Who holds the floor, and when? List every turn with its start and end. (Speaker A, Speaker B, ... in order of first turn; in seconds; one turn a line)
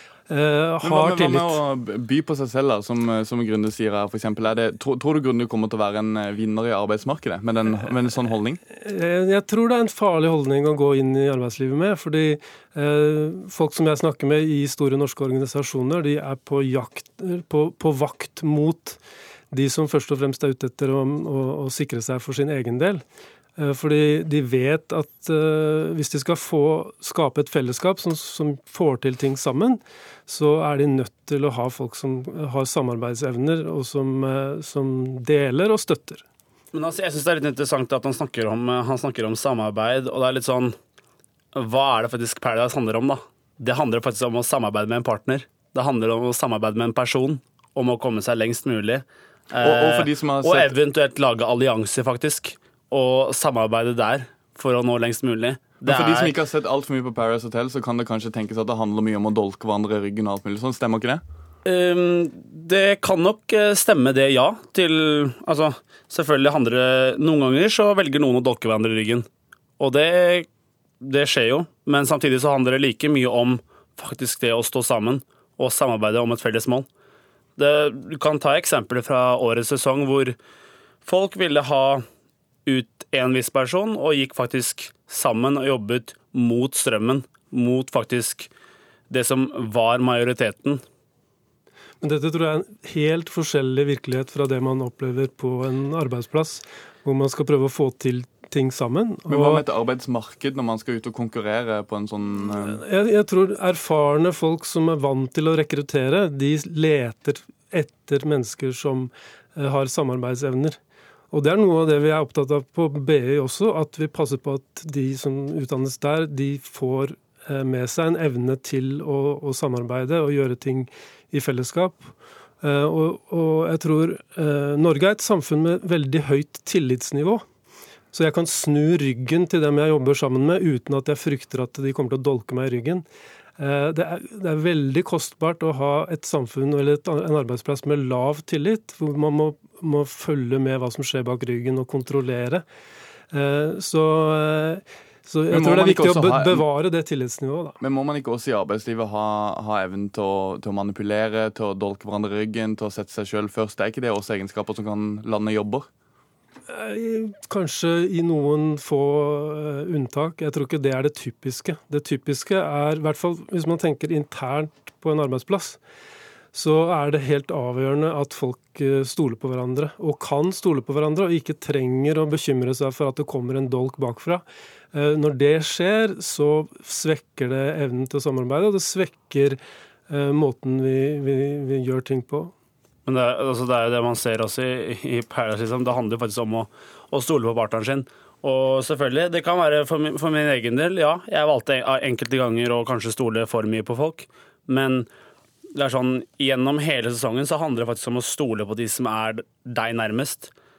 Speaker A: 0.3-1.6
Speaker B: 0.8-8.6
Speaker A: 8.7-19.0
Speaker A: 19.5-23.0
Speaker A: 23.6-36.2
Speaker C: 36.7-40.8
Speaker C: 41.5-56.3
Speaker B: 49.6-50.7
Speaker B: 55.8-61.2
Speaker C: 61.6-69.3
Speaker C: 69.8-70.5
Speaker C: 71.0-76.9
Speaker C: 77.6-80.4
Speaker C: 81.0-82.0
Speaker C: 82.7-88.5
Speaker C: 89.1-90.8
Speaker A: 92.0-99.6
Speaker B: 99.3-102.8
Speaker A: 102.3-110.8
Speaker A: 111.3-127.5
Speaker A: 128.1-133.1
Speaker A: 133.6-142.6
Speaker A: 143.3-147.8
Speaker B: 145.5-146.6
Speaker B: 147.8-155.9
Speaker A: 156.7-165.8
Speaker A: 166.5-182.5
Speaker C: 183.0-195.1
Speaker C: 195.7-200.5